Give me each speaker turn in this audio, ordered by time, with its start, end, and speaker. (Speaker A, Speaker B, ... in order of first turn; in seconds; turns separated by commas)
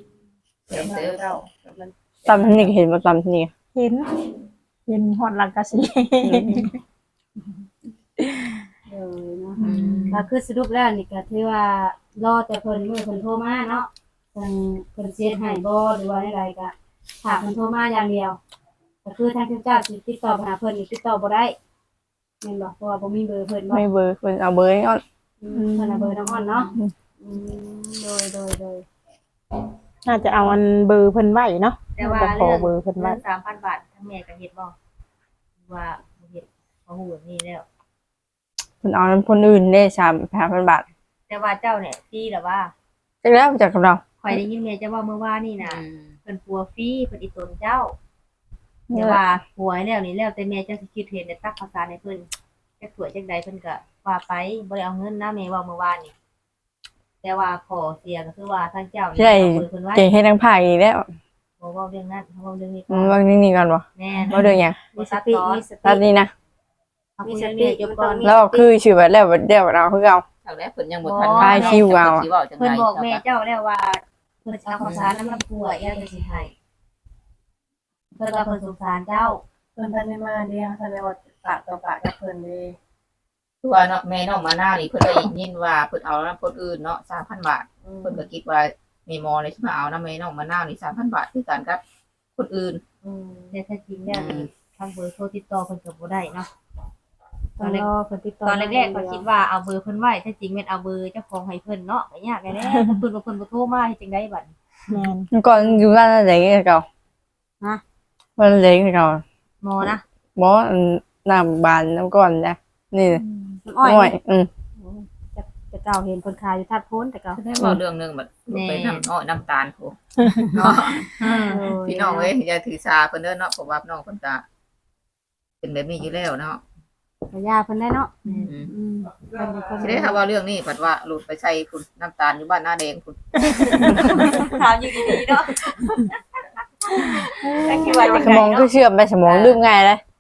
Speaker A: 0.7-1.3, Speaker B: 0.7-2.6, Speaker C: 2.2-3.5, Speaker D: 3.7-4.1, Speaker D: 4.9-6.8, Speaker C: 6.2-6.7, Speaker D: 8.2-8.5, Speaker E: 8.9-18.4, Speaker A: 9.6-10.3, Speaker C: 9.6-10.1, Speaker E: 19.0-21.6, Speaker E: 22.4-23.8, Speaker C: 23.7-25.0, Speaker E: 25.4-28.8, Speaker D: 25.5-26.1, Speaker D: 30.0-33.2, Speaker F: 32.0-34.7, Speaker F: 35.7-37.6, Speaker C: 38.8-40.8, Speaker F: 41.3-42.7, Speaker C: 43.2-44.4, Speaker F: 44.2-47.9, Speaker A: 45.6-46.2, Speaker C: 48.9-49.2, Speaker F: 48.9-52.3, Speaker F: 52.8-56.1, Speaker F: 57.2-60.1, Speaker C: 59.2-61.1, Speaker F: 61.6-63.2, Speaker C: 62.9-64.8, Speaker F: 64.0-65.7, Speaker E: 64.9-66.0, Speaker C: 65.8-66.3, Speaker F: 67.2-68.2, Speaker E: 67.2-68.7, Speaker C: 68.2-70.2, Speaker A: 70.4-73.2, Speaker F: 71.0-71.9, Speaker C: 71.4-72.3, Speaker F: 72.6-76.5, Speaker A: 74.8-75.1, Speaker F: 78.2-79.4, Speaker B: 79.8-82.7, Speaker F: 81.5-81.8, Speaker A: 83.6-91.8, Speaker B: 87.9-88.2, Speaker A: 92.3-92.8, Speaker F: 93.0-96.5, Speaker B: 93.1-93.5, Speaker A: 94.1-94.5, Speaker E: 97.6-99.2, Speaker F: 97.6-97.9, Speaker F: 98.4-104.5, Speaker D: 102.5-103.0, Speaker D: 104.9-105.3, Speaker C: 105.3-106.8, Speaker C: 108.4-109.2, Speaker F: 109.6-110.0, Speaker C: 110.3-113.2, Speaker E: 113.7-114.1, Speaker C: 113.8-114.5, Speaker E: 115.3-117.4, Speaker A: 117.3-120.0, Speaker F: 118.5-119.1, Speaker D: 120.2-121.6, Speaker A: 120.5-121.1, Speaker E: 121.5-122.3, Speaker A: 121.8-124.4, Speaker A: 125.6-126.6, Speaker E: 127.3-128.1, Speaker A: 128.4-128.7, Speaker E: 128.7-130.2, Speaker A: 129.8-134.5, Speaker F: 133.9-136.1, Speaker F: 137.5-138.7, Speaker D: 137.7-138.0, Speaker C: 138.0-140.0, Speaker F: 139.2-139.6